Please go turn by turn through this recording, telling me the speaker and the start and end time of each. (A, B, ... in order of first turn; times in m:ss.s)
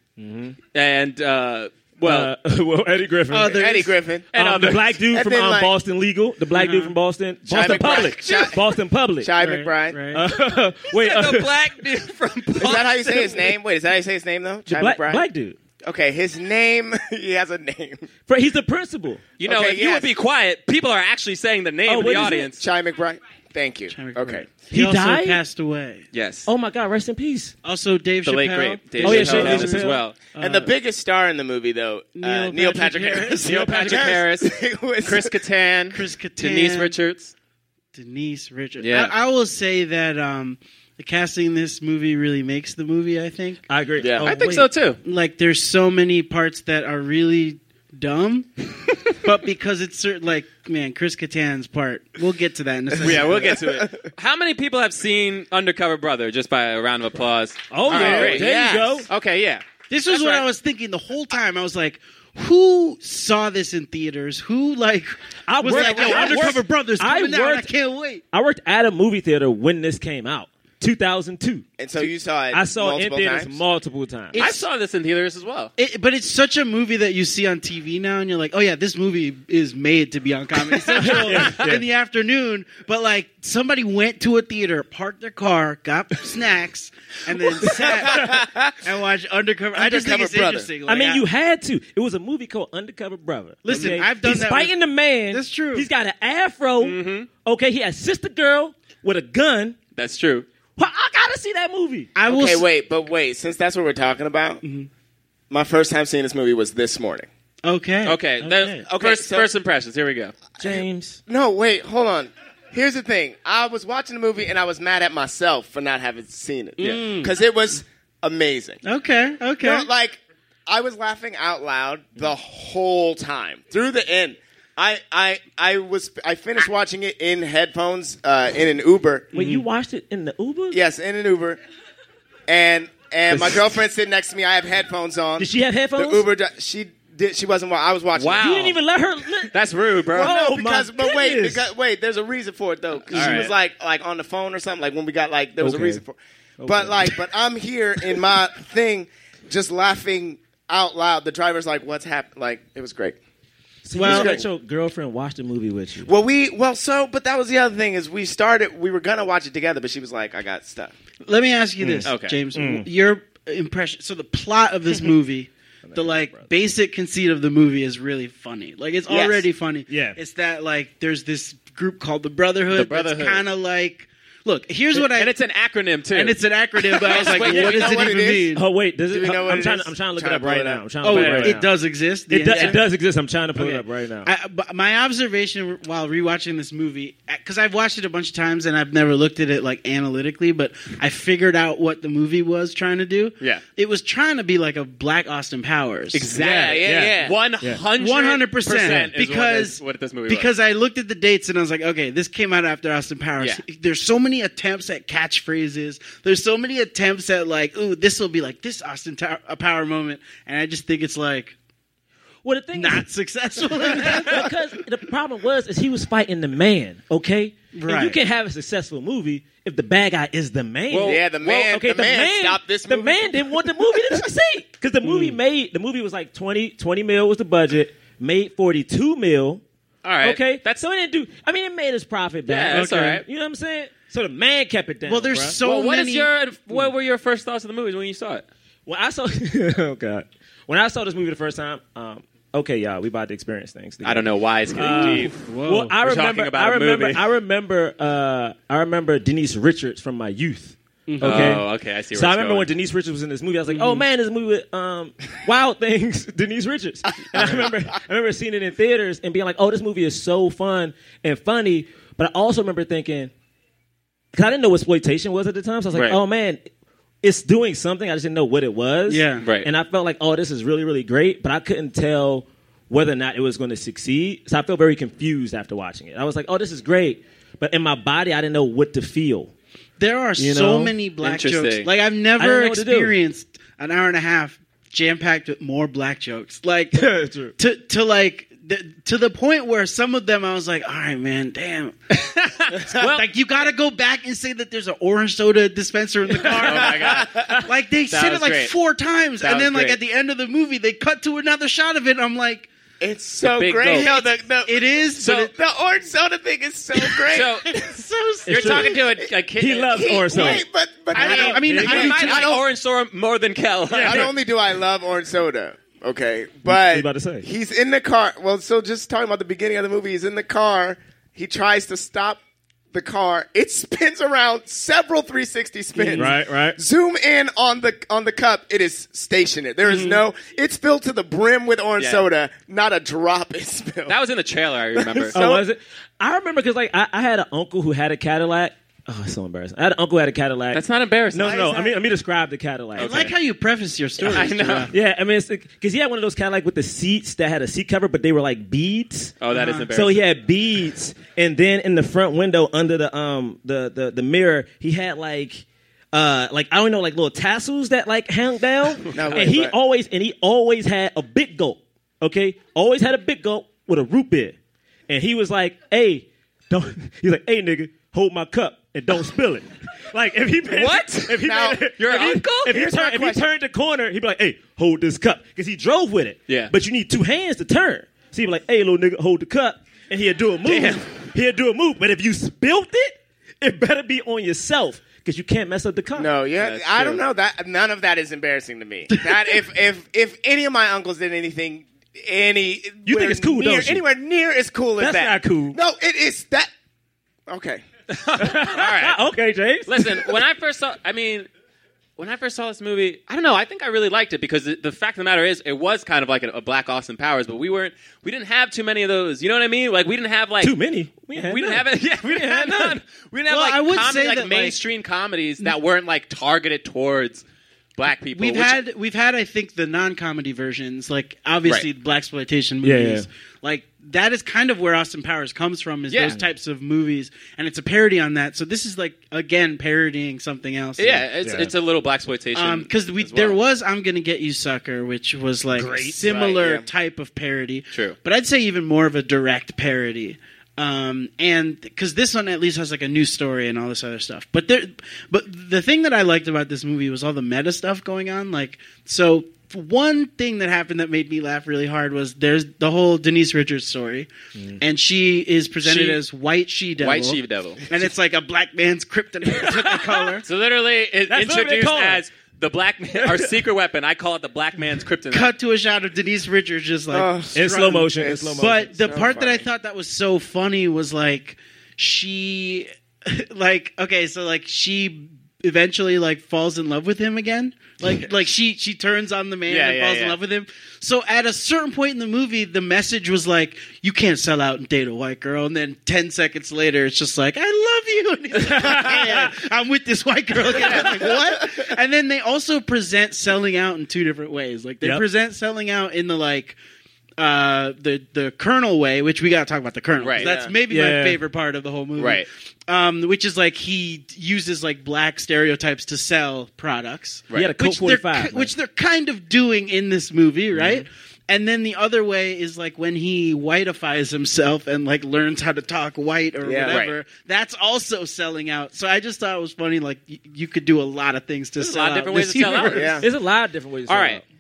0:00.2-0:00.6 A
0:00.7-0:02.3 B
0:02.0-0:03.6 A
0:03.3-0:04.0 C
0:03.5-0:04.3 D
0:04.3-0:04.9 B
0:04.3-0:09.3 A
0:05.1-0:05.7 D
0:06.5-0:06.9 C
0:07.5-0:08.6 D
0:09.2-0:10.0 D
0:09.4-0:10.2 C
0:10.1-0:11.5 A
0:10.9-0:13.4 B
0:12.6-0:15.2 D
0:14.7-0:15.6 A
0:15.8-0:18.1 D
0:18.3-0:19.2 A
0:19.4-0:22.6 B
0:19.4-0:20.1 D
0:21.9-0:22.5 A
0:22.4-0:24.5 D
0:23.9-0:26.0 C
0:24.7-0:25.4 A
0:26.1-0:26.5 B
0:26.4-0:27.5 A
0:27.6-0:30.7 C
0:28.2-0:30.2 B
0:29.0-0:30.0 A
0:30.4-0:35.4 D
0:32.2-0:34.1 C
0:33.4-0:37.3 B
0:35.9-0:36.9 C
0:37.9-0:43.6 C
0:38.8-0:39.1 B
0:43.7-0:44.7 A
0:44.0-0:44.4 D
0:44.2-0:45.0 B
0:45.0-0:48.6 C
0:49.1-0:53.6 C
0:53.0-0:58.5 B
0:53.3-0:53.9 D
0:57.7-0:59.1 A
0:57.9-0:59.1 D
0:59.1-1:00.5 B
0:59.9-1:08.2 C
1:05.5-1:07.7 A
1:05.8-1:06.5 B
1:08.3-1:14.4 A
1:11.8-1:13.6 D
1:14.3-1:14.7 C
1:14.4-1:15.7 B
1:15.8-1:31.2 C
1:21.0-1:21.8 A
1:21.2-1:21.5 B
1:27.7-1:28.8 D
1:29.7-1:30.7 D
1:30.8-1:39.8 A
1:33.6-1:35.9 C
1:36.8-1:37.3 B
1:40.0-1:40.4 B
1:40.8-1:42.1 A
1:42.2-1:42.7 C
1:42.3-1:44.6 D
1:44.6-1:44.9 C
1:45.5-1:47.3 D
1:47.6-1:48.5 C
1:48.0-1:50.3 B
1:48.8-1:49.5 D
1:50.6-1:51.2 A
1:50.6-1:58.8 D
1:56.8-1:57.3 C
1:58.8-1:59.9 C
1:59.6-2:09.3 D
2:09.3-2:09.6 C
2:09.3-2:10.8 A
2:10.7-2:11.6 D
2:12.5-2:18.6 D
2:13.3-2:13.7 A
2:15.4-2:16.3 A
2:18.2-2:18.8 B
2:18.4-2:19.5 A
2:19.5-2:20.3 B
2:20.1-2:33.2 D
2:20.2-2:21.7 A
2:23.1-2:23.5 B
2:25.6-2:26.0 A
2:26.6-2:27.2 A
2:33.8-2:36.1 A
2:34.0-2:34.4 C
2:34.0-2:34.4 D
2:36.0-2:40.9 D
2:41.2-2:55.4 C
2:41.8-2:42.9 A
2:42.0-2:42.4 B
2:45.8-2:46.5 A
2:49.1-2:49.5 D
2:49.9-2:50.2 A
2:52.7-2:53.4 B
2:54.9-2:56.4 B
2:56.1-2:58.6 C
2:56.9-2:58.1 B
2:57.1-2:58.6 D
2:58.5-3:01.7 A
2:59.1-3:00.8 D
3:01.0-3:02.8 C
3:01.1-3:01.5 B
3:02.3-3:04.3 A
3:03.6-3:16.8 C
3:16.1-3:20.5 B
3:16.5-3:17.4 D
3:16.8-3:17.8 A
3:18.0-3:31.6 C
3:32.4-3:33.0 A
3:32.7-3:34.5 C
3:33.9-3:49.6 A
3:37.7-3:38.2 C
3:40.9-3:41.7 B
3:41.0-3:43.7 D
3:45.0-3:45.4 C
3:50.0-3:50.6 B
3:50.2-3:55.6 A
3:52.5-3:53.2 B
3:52.7-3:53.1 C
3:55.0-3:56.3 C
3:55.6-3:58.4 B
3:58.8-4:23.3 A
4:04.0-4:05.4 B
4:04.8-4:05.9 C
4:06.0-4:07.2 B
4:11.1-4:11.6 C
4:11.2-4:12.7 B
4:13.7-4:14.0 C
4:17.3-4:17.7 D
4:24.3-4:26.6 A
4:25.9-4:26.2 B
4:27.2-4:39.5 A
4:29.1-4:29.5 C
4:29.4-4:29.7 B
4:40.0-4:52.0 C
4:40.4-4:40.9 A
4:41.2-4:41.9 B
4:42.4-4:43.1 A
4:46.9-4:47.6 A
4:52.2-4:53.7 B
4:52.8-5:02.7 C
4:56.5-4:57.6 B
4:56.9-4:57.4 D
4:58.1-4:58.7 B
4:59.4-5:00.0 B
5:03.0-5:07.5 D
5:03.4-5:04.1 B
5:03.9-5:05.5 C
5:05.2-5:05.5 B
5:07.3-5:07.8 B
5:07.7-5:08.9 C
5:08.5-5:08.9 A
5:08.5-5:10.5 B
5:09.0-5:09.3 D
5:09.6-5:10.6 A
5:09.9-5:12.6 D
5:11.1-5:12.5 C
5:11.2-5:14.3 B
5:11.2-5:12.3 A
5:13.9-5:14.3 A
5:14.0-5:22.4 D
5:16.7-5:17.4 A
5:22.9-5:34.2 D
5:26.0-5:26.3 C
5:26.2-5:26.8 A
5:29.8-5:30.2 C
5:32.0-5:32.2 B
5:34.1-5:35.4 B
5:34.9-5:35.7 D
5:35.3-5:43.3 A
5:40.7-5:41.7 B
5:41.4-5:41.9 D
5:43.0-5:43.3 B
5:43.0-5:44.9 C
5:44.2-5:44.9 B
5:44.9-5:49.3 A
5:49.4-5:50.3 B
5:49.5-5:49.9 C
5:49.9-6:04.6 A
5:59.1-5:59.8 D
6:05.1-6:26.3 A
6:10.7-6:12.8 B
6:11.3-6:11.9 D
6:12.6-6:13.5 D
6:20.7-6:21.0 B
6:26.2-6:36.7 D
6:26.6-6:27.2 B
6:29.1-6:29.4 C
6:33.0-6:34.0 A
6:35.0-6:35.8 A
6:37.5-6:37.8 D
6:38.1-6:39.2 B
6:38.4-6:40.1 A
6:39.9-6:41.5 B
6:42.2-6:50.8 B
6:50.6-6:53.0 A
6:51.3-6:57.4 B
6:53.5-6:54.8 C
6:58.0-6:58.8 B
6:58.3-7:11.2 C
7:02.8-7:03.2 A
7:06.1-7:06.4 B
7:11.0-7:13.6 B
7:11.4-7:11.7 A
7:12.6-7:40.4 C
7:15.7-7:16.3 A
7:16.2-7:16.9 D
7:35.8-7:36.2 B
7:37.0-7:37.8 B
7:40.4-7:45.5 B
7:41.3-7:42.2 A
7:43.2-7:43.6 A
7:45.3-8:16.8 C
7:47.1-7:49.7 D
7:47.6-7:48.9 A
7:59.7-8:00.4 B
8:08.6-8:09.5 A
8:10.7-8:11.1 B
8:11.0-8:11.9 D
8:17.4-8:43.2 C
8:20.2-8:20.5 B
8:20.4-8:20.8 D
8:20.9-8:21.4 A
8:22.2-8:22.4 B
8:27.5-8:28.7 A
8:36.6-8:37.0 D
8:36.9-8:37.1 B
8:41.8-8:43.2 B
8:42.9-8:43.3 D
8:43.2-8:44.4 A
8:44.1-8:44.4 B